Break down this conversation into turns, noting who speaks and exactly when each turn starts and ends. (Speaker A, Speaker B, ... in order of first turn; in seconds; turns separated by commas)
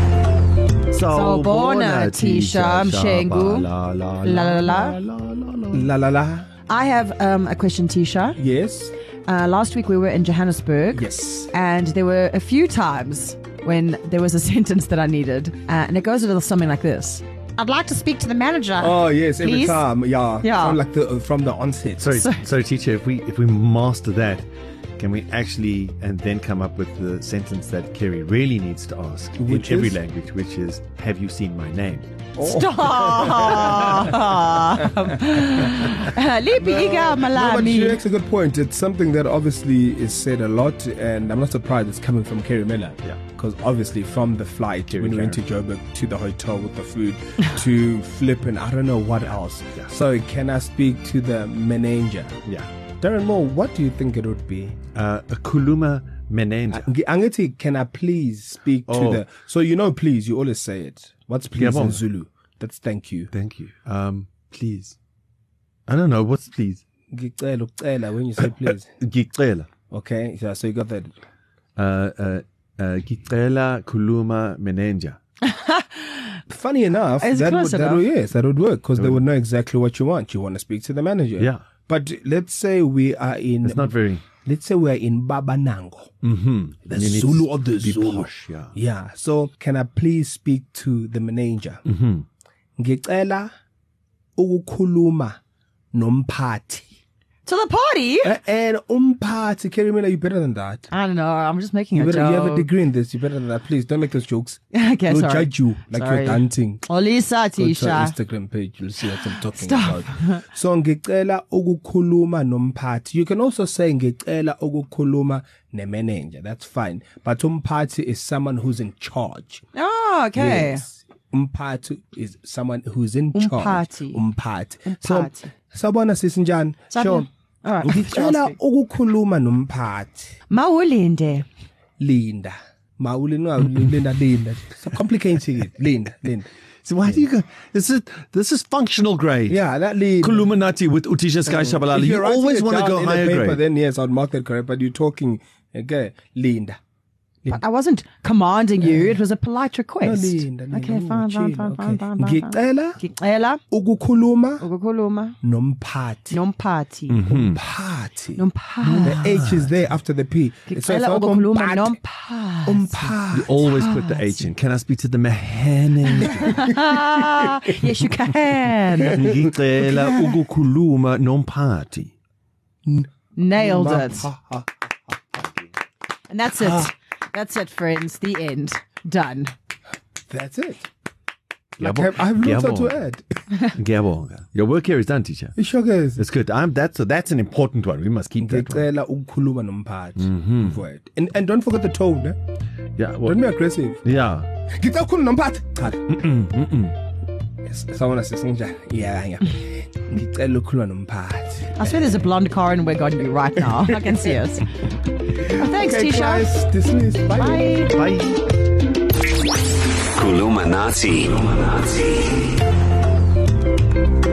Speaker A: 0.9-5.9, Speaker B: 1.1-3.7, Speaker B: 4.2-5.0, Speaker C: 5.7-6.5, Speaker B: 6.7-8.4, Speaker C: 8.4-8.9, Speaker B: 9.3-19.8, Speaker C: 10.9-11.5, Speaker C: 18.8-22.2, Speaker B: 20.4-20.8, Speaker A: 22.0-24.4, Speaker A: 25.0-32.1, Speaker C: 29.4-30.0, Speaker C: 32.4-34.2, Speaker B: 32.4-38.0, Speaker C: 35.6-36.0, Speaker C: 36.6-52.3, Speaker A: 44.9-45.4, Speaker C: 53.0-54.8, Speaker A: 54.9-56.9, Speaker C: 56.7-63.3, Speaker A: 58.9-59.2, Speaker A: 61.5-62.0, Speaker A: 63.3-65.0, Speaker A: 65.9-66.8, Speaker C: 67.1-68.9, Speaker A: 69.0-69.7, Speaker C: 69.9-71.1, Speaker A: 71.8-75.2, Speaker B: 75.5-76.4, Speaker C: 76.5-86.1, Speaker B: 77.2-78.0, Speaker A: 83.6-84.2, Speaker A: 86.2-88.8, Speaker C: 86.9-91.8, Speaker A: 91.8-92.2, Speaker C: 92.8-93.5, Speaker C: 94.4-95.4, Speaker C: 95.9-96.9, Speaker B: 97.5-98.3, Speaker C: 98.2-100.9, Speaker B: 100.9-102.7, Speaker C: 102.0-106.8, Speaker B: 104.7-108.1, Speaker C: 107.6-119.6, Speaker B: 109.2-110.4, Speaker B: 119.7-120.8, Speaker C: 120.3-127.3, Speaker B: 123.3-124.2, Speaker B: 124.9-125.5, Speaker B: 126.9-128.6, Speaker C: 127.8-130.3, Speaker B: 130.5-131.5, Speaker C: 132.0-136.5, Speaker A: 136.8-139.6, Speaker C: 139.5-140.5, Speaker A: 140.2-143.6, Speaker C: 141.5-146.8, Speaker B: 147.5-153.6, Speaker C: 148.8-149.2, Speaker C: 150.0-153.0, Speaker C: 153.7-154.7, Speaker B: 154.6-155.4, Speaker C: 155.4-156.4, Speaker B: 156.3-157.2, Speaker A: 157.1-157.6, Speaker C: 157.2-158.4, Speaker B: 158.4-159.4, Speaker A: 158.8-159.7, Speaker C: 159.0-161.9, Speaker B: 160.7-164.5, Speaker C: 162.7-163.5, Speaker A: 163.3-166.7, Speaker B: 166.1-169.2, Speaker C: 169.1-170.3, Speaker A: 169.2-172.1, Speaker C: 172.8-175.5, Speaker B: 173.4-174.3, Speaker B: 176.3-179.5, Speaker C: 176.6-176.9, Speaker C: 180.3-180.9, Speaker A: 181.8-183.0, Speaker C: 181.8-183.5, Speaker A: 183.6-185.6, Speaker C: 185.6-186.2, Speaker A: 186.2-188.9, Speaker C: 188.4-192.4, Speaker A: 190.2-190.8, Speaker A: 193.0-193.4, Speaker C: 193.2-194.0, Speaker A: 194.0-194.5, Speaker C: 194.7-196.2, Speaker A: 196.1-196.9, Speaker C: 197.6-202.2, Speaker B: 201.8-204.7, Speaker B: 205.4-206.5, Speaker C: 205.4-207.7, Speaker B: 207.3-207.9, Speaker A: 207.9-208.4, Speaker D: 210.1-212.1